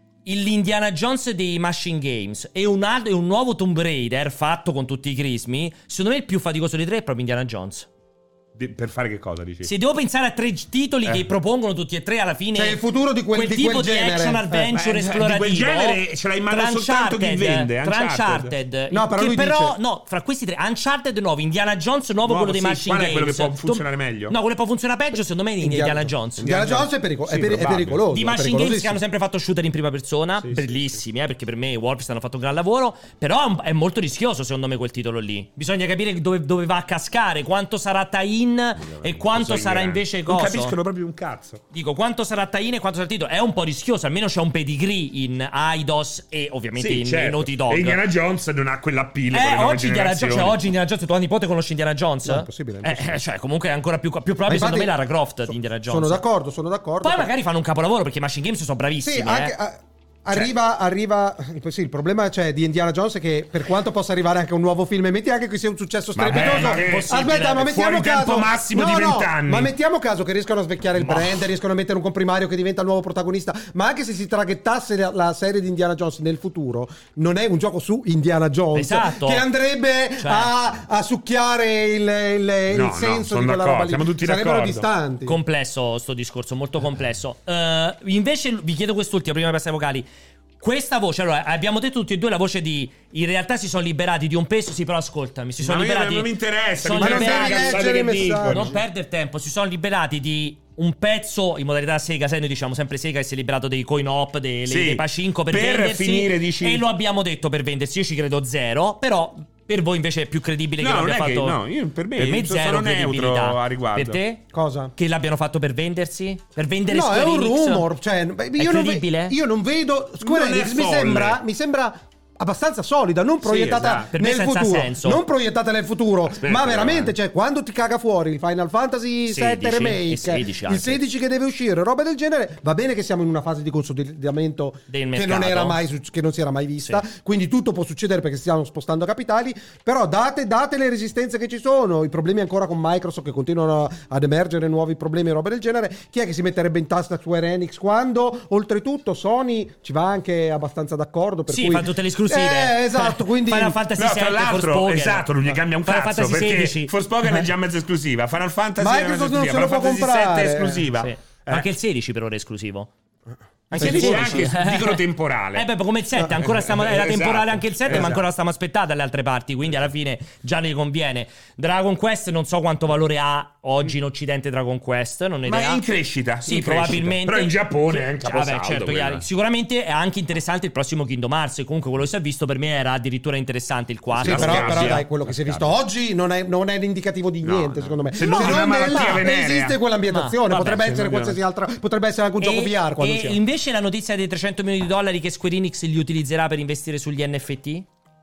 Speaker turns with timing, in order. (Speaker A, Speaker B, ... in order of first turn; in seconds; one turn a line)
Speaker A: 0.2-7.9
Speaker B: 8.6-9.7
Speaker A: 9.6-12.8
Speaker C: 12.5-14.7
Speaker A: 13.3-26.5
Speaker B: 14.7-18.5
Speaker C: 18.9-19.8
Speaker B: 22.2-24.3
Speaker C: 25.6-29.0
Speaker B: 26.4-28.0
Speaker A: 28.1-40.7
Speaker B: 30.4-30.7
Speaker B: 38.8-41.6
Speaker A: 41.7-48.0
Speaker B: 46.8-50.6
Speaker A: 49.3-56.2
Speaker C: 52.2-53.2
Speaker C: 54.5-54.9
Speaker C: 55.5-57.3
Speaker A: 57.0-59.5
Speaker C: 59.0-85.3
Speaker B: 66.2-69.7
Speaker A: 66.3-67.7
Speaker A: 71.0-71.2
Speaker A: 78.7-79.4
Speaker A: 80.2-80.5
Speaker B: 82.7-84.9
Speaker A: 85.2-90.0
Speaker A: 90.6-97.9
Speaker B: 95.6-98.7
Speaker C: 97.0-98.8
Speaker A: 98.5-111.6
Speaker B: 104.7-106.8
Speaker B: 110.8-114.2
Speaker A: 112.2-114.4
Speaker C: 114.5-114.9
Speaker A: 115.0-117.8
Speaker C: 116.9-153.8
Speaker A: 118.6-119.3
Speaker B: 120.2-121.4
Speaker B: 123.4-124.1
Speaker A: 124.0-125.2
Speaker B: 126.3-127.1
Speaker A: 129.3-131.0
Speaker A: 134.9-135.8
Speaker A: 151.5-155.3
Speaker B: 154.0-161.7
Speaker A: 155.8-156.9
Speaker C: 158.8-160.9
Speaker A: 161.0-162.9
Speaker A: 163.7-165.0
Speaker C: 163.7-164.5
Speaker B: 163.7-165.7
Speaker A: 165.5-175.8
Speaker B: 166.4-168.2
Speaker C: 167.9-168.2
Speaker B: 175.4-179.2
Speaker A: 176.4-185.0
Speaker B: 184.2-185.7
Speaker C: 184.2-193.4
Speaker B: 187.4-189.8
Speaker A: 188.2-189.2
Speaker A: 190.1-191.1
Speaker B: 190.7-191.4
Speaker A: 192.4-197.8